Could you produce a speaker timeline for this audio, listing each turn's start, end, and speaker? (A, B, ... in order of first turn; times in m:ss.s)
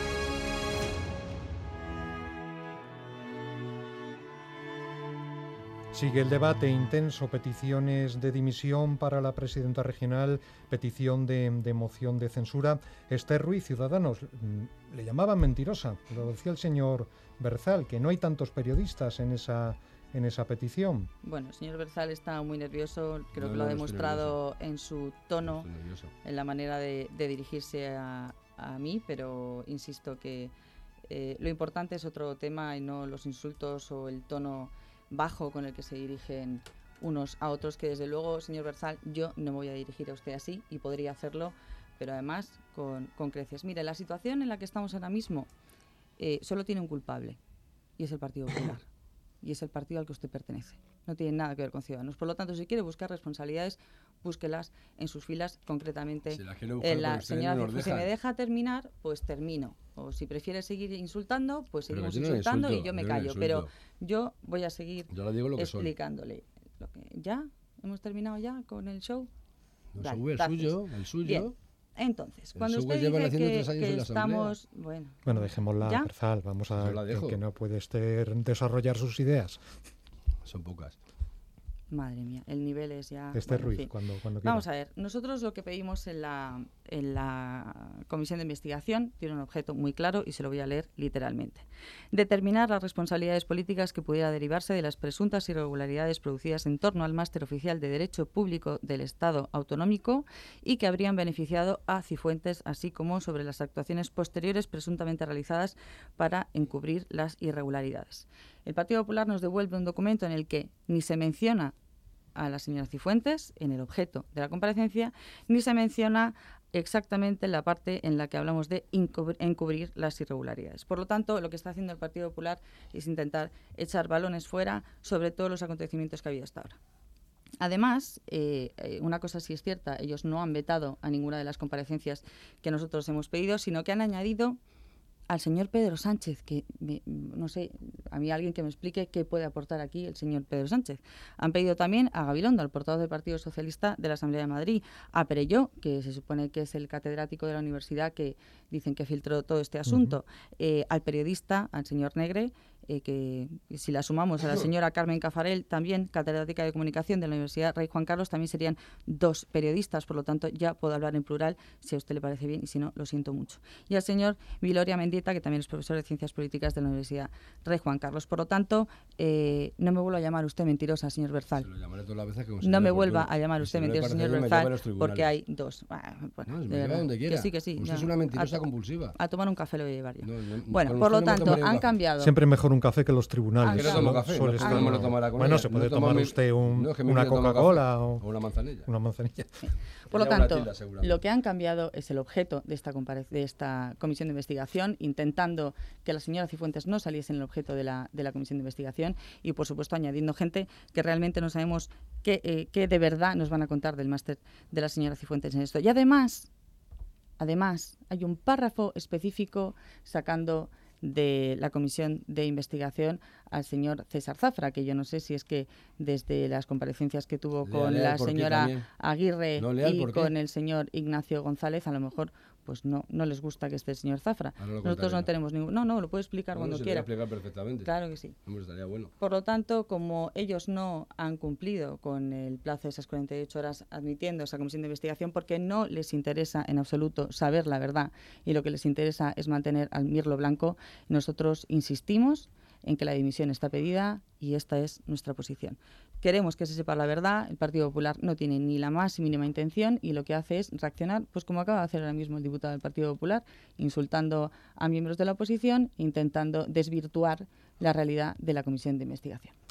0:05.9-0:21.1 A
0:21.2-0:25.7 B
0:23.3-0:24.4 C
0:25.4-0:26.1 C
0:26.2-0:30.5 B
0:31.1-0:45.5 B
0:46.2-0:47.4 B
0:48.0-0:48.9 B
0:49.4-1:09.3 B
0:56.3-0:58.1 C
1:01.9-1:03.7 C
1:05.1-1:05.9 C
1:09.9-1:11.5 C
1:10.0-1:16.1 B
1:12.6-1:14.5 C
1:15.2-1:19.6 A
1:16.8-1:17.4 C
1:20.4-1:21.0 C
1:21.9-1:51.7 B
1:23.3-1:24.6 A
1:52.4-2:06.8 B
2:07.6-2:14.6 B
2:15.3-2:51.7 B
2:29.9-2:30.2 A
2:51.6-2:55.3 C
2:52.6-3:02.3 B
2:56.4-2:59.2 C
3:00.2-3:01.9 C
3:02.2-3:08.2 A
3:03.6-3:05.1 B
3:03.7-3:08.9 C
3:08.9-3:09.6 A
3:09.6-3:26.5 B
3:10.1-3:11.2 C
3:27.4-3:47.1 B
3:37.6-3:38.9 C
3:39.6-3:40.3 C
3:44.6-3:45.3 C
3:46.5-3:47.9 C
3:47.8-3:48.4 B
3:48.4-3:49.1 C
3:49.2-4:19.5 B